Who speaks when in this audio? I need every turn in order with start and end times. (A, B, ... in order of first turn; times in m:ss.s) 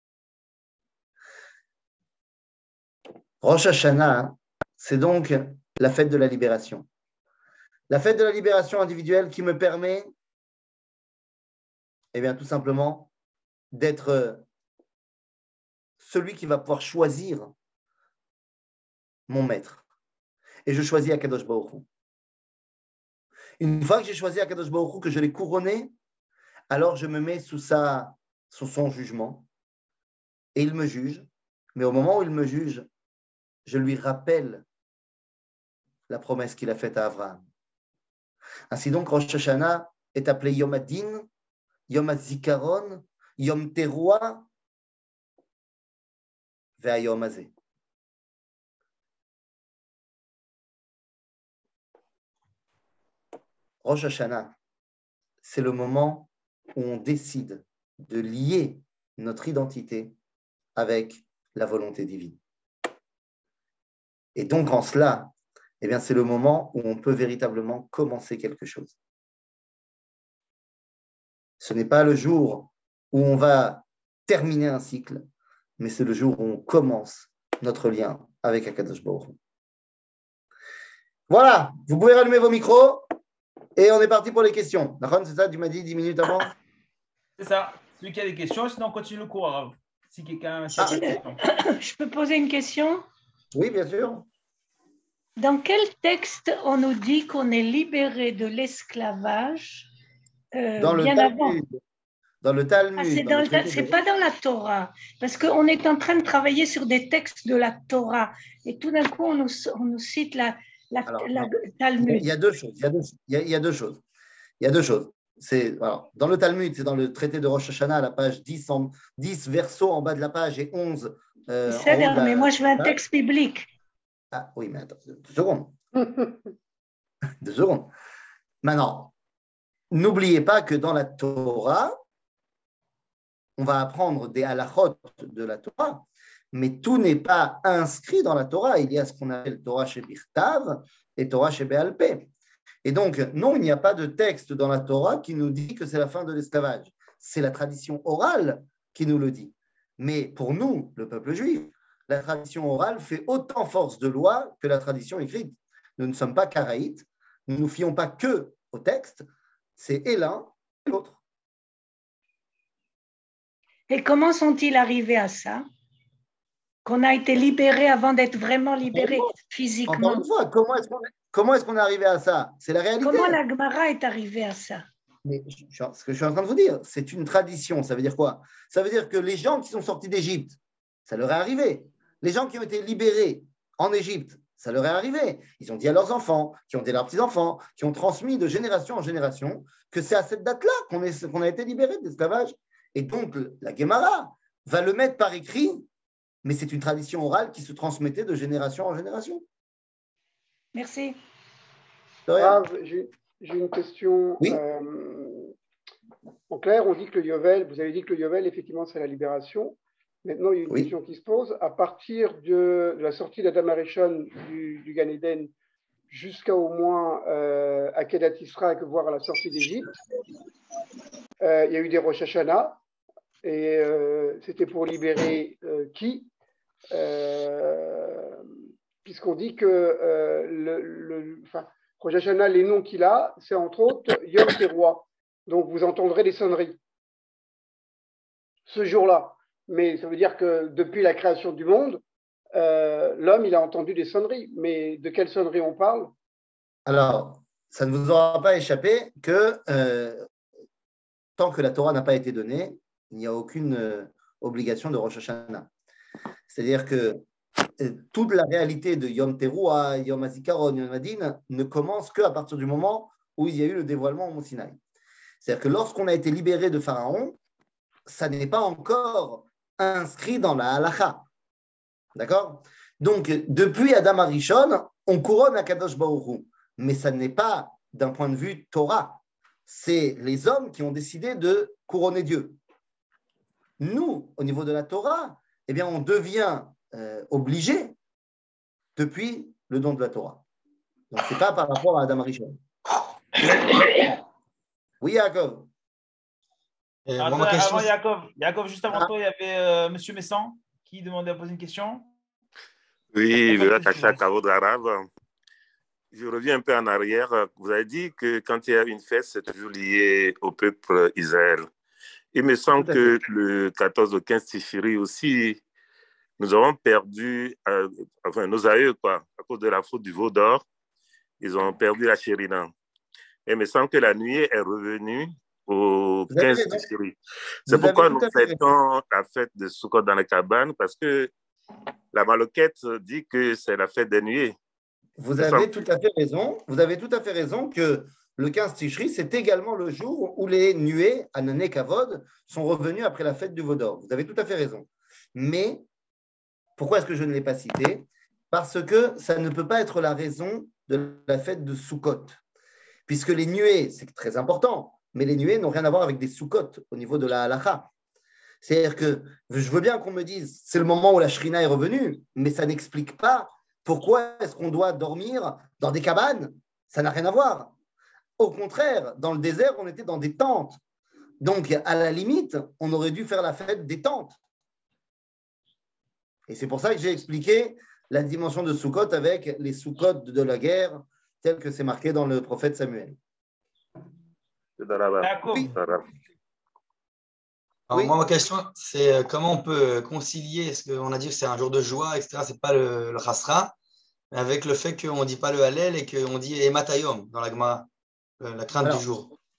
0:03.4-0:06.9 A
0:07.9-0:10.1 A
0:12.1-0:13.1 A
0:13.7-0:14.4 A
0:16.0-0:17.5 A
0:19.3-0:19.8 A
0:20.6-0:21.8 A
0:23.6-0:25.9 A
0:26.7-0:29.5 A
0:30.5-0:32.9 A
0:33.6-0:34.6 A
0:36.1-0:37.4 A
0:38.7-0:41.3 A
0:41.9-0:44.5 A
0:46.8-0:47.5 A
0:53.8-0:54.5 A
0:55.4-1:00.1 A
1:00.8-1:02.4 A
1:04.3-1:08.9 A
1:11.6-1:15.2 A
1:15.8-1:19.4 A
1:21.3-1:23.1 A
1:23.8-1:26.5 A
1:27.4-1:31.4 B
1:30.8-1:31.0 A
1:30.8-1:33.0 C
1:33.5-1:34.2 A
1:35.4-1:39.9 C
1:40.5-1:41.6 C
1:40.8-1:41.7 A
1:42.4-1:44.0 A
1:43.0-1:52.3 C
1:51.0-1:54.0 A
1:54.6-2:03.0 A
2:01.7-2:03.6 C
2:04.3-2:05.8 A
2:06.0-2:06.3 D
2:07.4-2:07.9 A
2:08.6-2:09.1 A
2:09.9-2:12.0 A
2:13.6-2:22.3 A
2:22.8-2:39.2 A
2:39.8-2:41.2 A
2:43.9-2:45.6 C
2:46.8-2:50.2 C
2:48.9-2:53.4 A
2:53.0-2:54.8 C
2:55.2-3:15.8 A
3:16.4-3:19.4 A
3:20.7-3:21.2 C
3:22.3-3:22.6 A
3:22.4-3:25.5 D
3:26.5-3:35.5 D
3:36.1-3:40.0 D
3:41.4-3:42.8 D
3:43.4-3:46.3 D
3:46.9-3:48.4 D
3:49.0-3:56.8 D
3:58.7-4:02.0 D
4:02.5-4:06.1 D
4:06.8-4:10.2 A
4:11.4-4:15.7 A
4:16.5-4:17.2 A
4:17.8-4:24.8 A
4:25.4-4:27.4 A
4:28.1-4:31.2 A
4:32.1-4:42.6 A
4:43.8-4:47.9 A
4:49.0-4:50.4 A
4:51.1-4:52.6 A
4:55.0-4:55.7 A
4:57.1-4:57.9 E
4:57.2-5:02.1 B
5:03.1-5:05.1 F
5:03.4-5:04.2 B
5:06.1-5:11.7 F
5:12.3-5:15.6 F
5:12.7-5:13.1 A
5:16.4-5:20.6 F
5:21.4-5:22.7 F
5:23.5-5:31.3 F
5:26.3-5:26.9 A
5:27.7-5:28.6 A
5:32.1-5:34.5 F
5:35.2-5:45.8 A
5:35.4-5:35.8 F
5:46.8-5:52.4 A
5:53.1-5:57.9 A
5:58.6-6:07.7 A
6:08.4-6:10.8 A
6:11.4-6:14.4 A
6:16.5-6:23.2 A
6:24.8-6:26.0 F
6:25.2-6:25.8 B
6:27.9-6:33.7 E
6:34.3-6:37.9 E
6:38.4-6:39.3 E